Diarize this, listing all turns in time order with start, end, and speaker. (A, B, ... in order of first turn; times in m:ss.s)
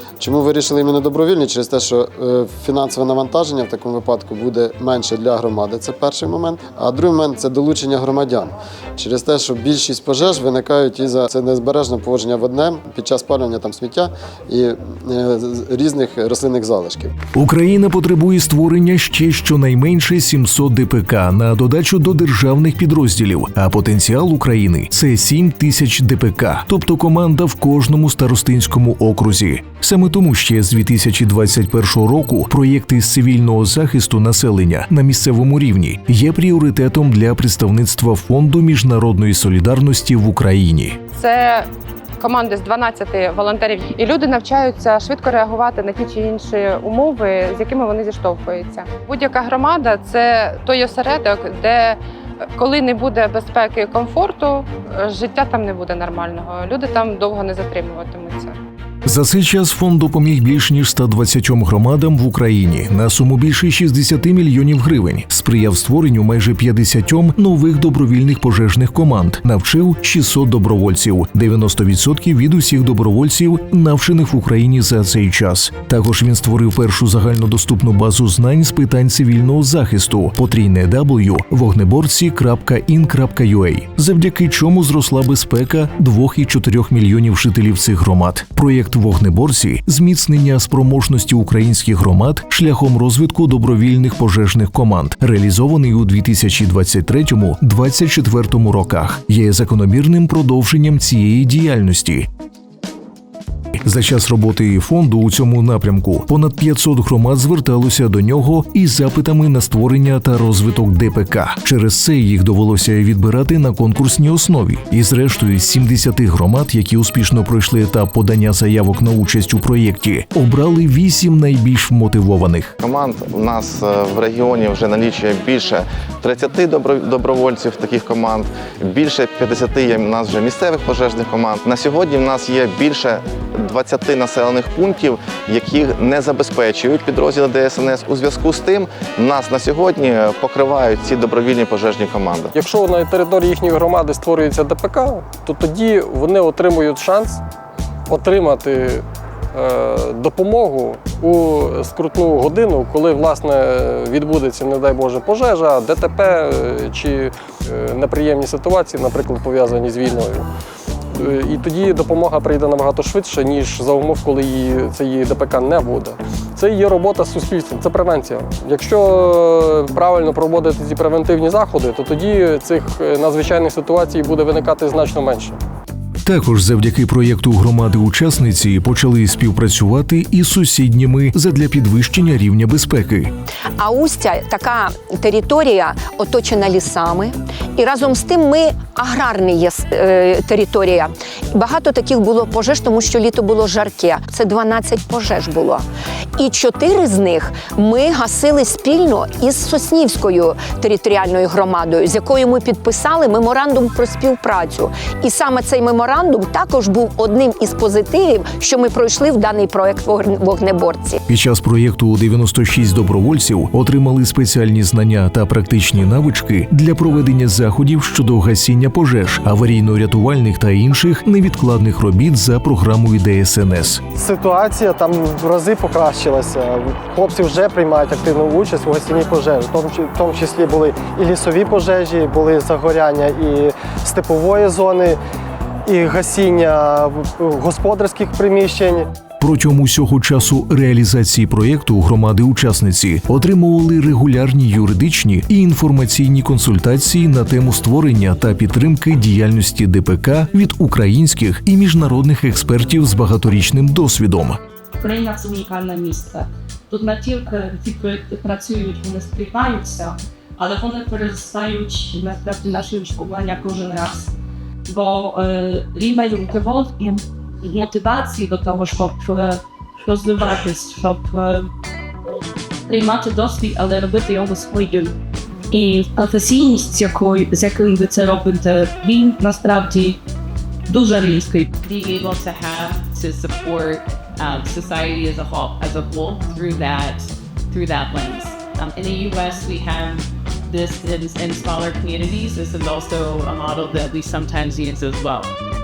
0:00.2-0:17.1 A
0:17.3-0:41.0 B
0:41.1-0:41.7 C
0:42.2-0:52.0 C
0:52.5-0:58.5 C
0:59.0-1:42.3 B
1:43.8-2:02.7 B
2:02.8-2:22.5 D
2:22.5-2:27.4 E
2:28.1-2:40.5 E
2:41.1-2:55.6 E
2:56.2-3:03.3 B
3:03.8-3:15.8 F
3:16.4-3:31.2 F
3:31.3-3:44.0 B
3:44.1-3:55.2 G
3:55.8-3:59.1 G
3:59.4-4:14.6 B
4:15.0-4:24.3 H
4:24.8-4:31.7 H
4:32.9-4:35.2 H
4:35.7-4:40.2 H
4:40.9-4:41.8 H
4:41.8-4:55.5 I